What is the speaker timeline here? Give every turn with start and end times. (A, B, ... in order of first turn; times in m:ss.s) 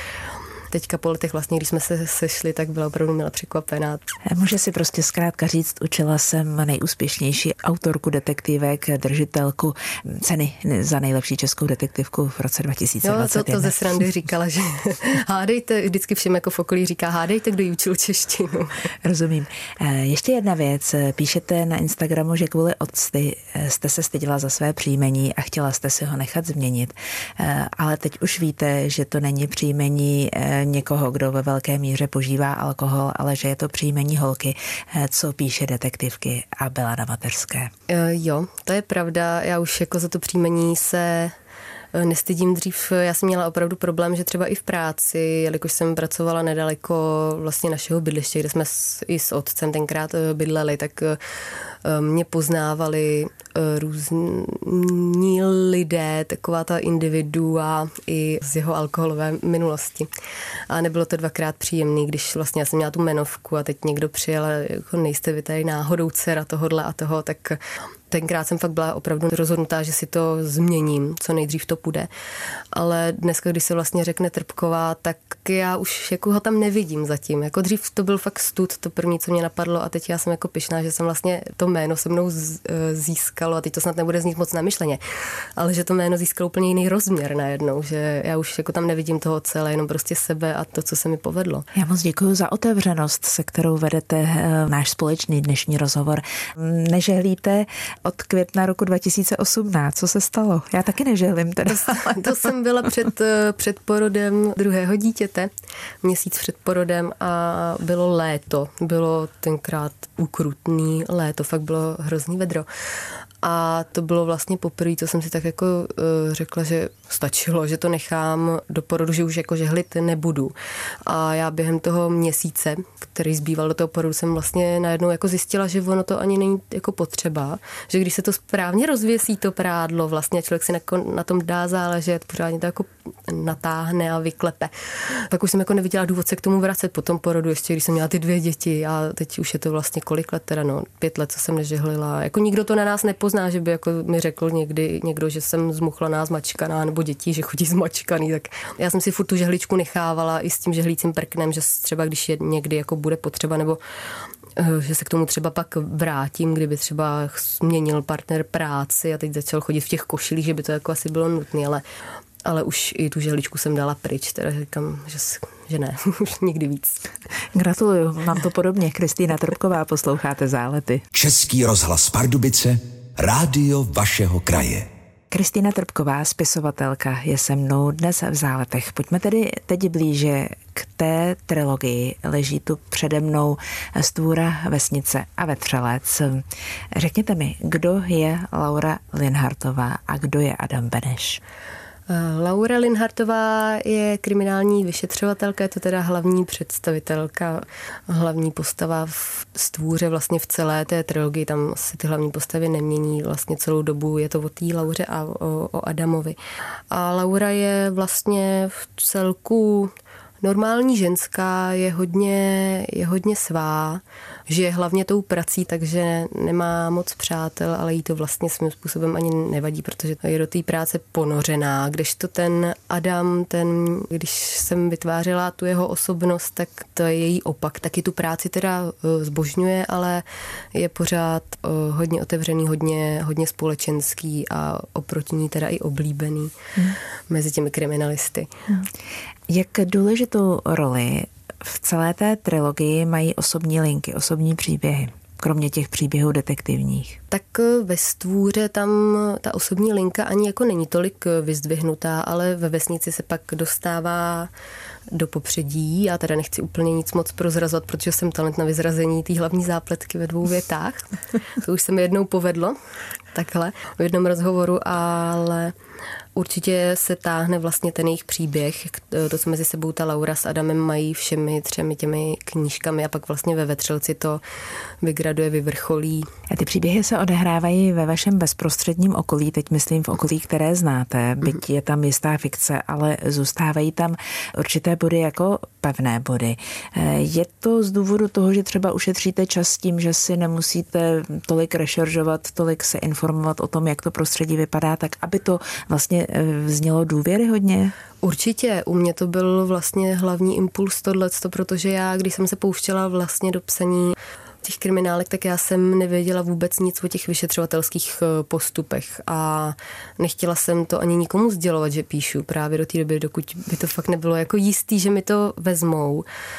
0:00.7-0:04.0 A
0:04.3-0:13.8 B
0:13.0-0:18.9 A
0:19.0-0:37.7 B
0:37.9-0:41.4 A
0:41.9-0:51.3 A
0:51.8-1:00.1 A
1:00.7-1:12.1 A
1:12.7-1:31.7 A
1:31.7-1:42.5 B
1:41.7-1:45.5 A
1:46.0-1:52.7 A
1:53.4-2:00.6 A
2:01.1-2:33.8 A
2:34.6-2:41.8 A
2:42.4-2:47.0 A
2:47.5-2:51.0 B
2:51.1-2:54.9 C
2:55.3-3:11.4 B
3:12.1-3:26.4 A
3:26.9-3:56.6 A
3:57.3-3:58.5 A
3:59.5-4:07.2 B
4:07.3-4:14.5 A
4:15.1-4:22.8 A
4:23.3-4:25.8 A
4:26.4-4:34.4 A
4:35.0-4:36.3 A
4:36.5-4:58.0 B
4:58.2-5:16.3 A